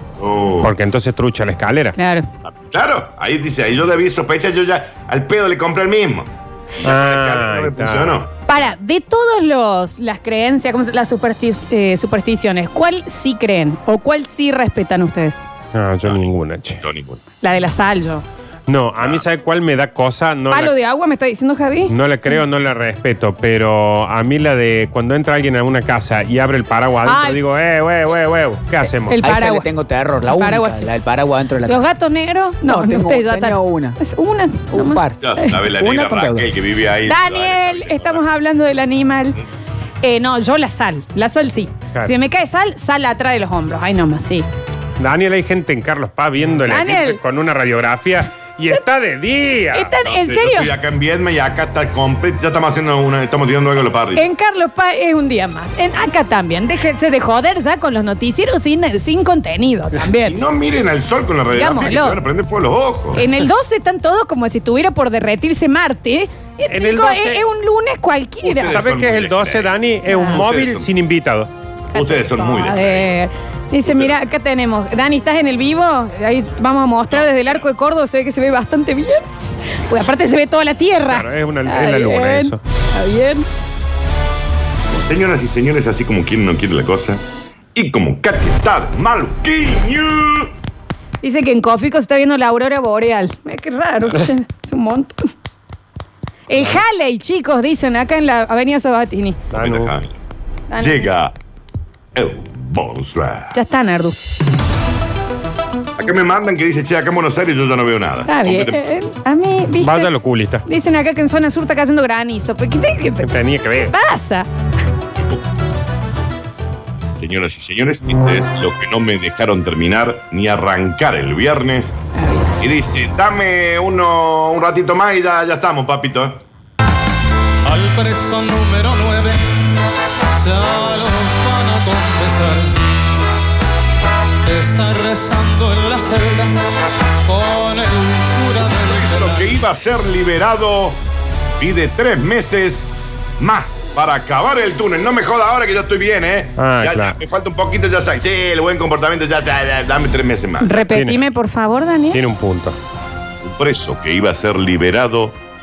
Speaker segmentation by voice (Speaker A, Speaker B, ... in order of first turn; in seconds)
Speaker A: 0.2-0.7, 2.4-8.3, 16.0-17.2, 19.0-19.2, 35.2-38.2, 50.0-54.3, 60.2-63.2, 68.4-70.9, 71.9-73.2, 73.8-74.2, 77.1-77.6, 85.0-87.2, 87.8-90.5, 99.5-100.2, 100.8-101.4, 102.1-103.6, 106.0-108.8, 115.2-115.5, 117.2-122.0, 122.6-126.4, 138.6-141.0, 141.6-142.9, 143.4-151.0, 153.4-155.4
Speaker B: 0.6-2.0, 6.8-8.2, 15.7-16.8, 18.7-20.8, 21.9-29.2, 45.0-49.9, 66.7-67.4, 68.6-71.5, 81.1-82.6, 99.5-99.9, 109.8-110.6, 113.2-113.9, 146.6-147.2, 150.9-151.2, 152.1-152.8
Speaker C: 2.0-2.3, 8.5-15.4, 17.4-18.2, 20.5-22.4, 27.1-27.4, 28.9-29.7, 30.3-30.9, 31.6-35.5, 37.1-39.4, 40.0-44.5, 46.7-47.2, 49.7-50.7, 54.1-60.4, 61.5-62.2, 63.1-68.8, 70.1-70.4, 72.0-83.5, 91.2-95.3, 96.5-99.4, 100.7-101.1, 103.5-104.3, 108.2-110.1, 110.7-113.3, 113.9-114.5, 122.2-122.5, 150.6-152.2
Speaker D: 29.2-31.9, 32.6-34.0, 34.7-36.5
Speaker E: 127.6-129.7, 130.4-132.9, 134.4-136.6, 137.2-139.6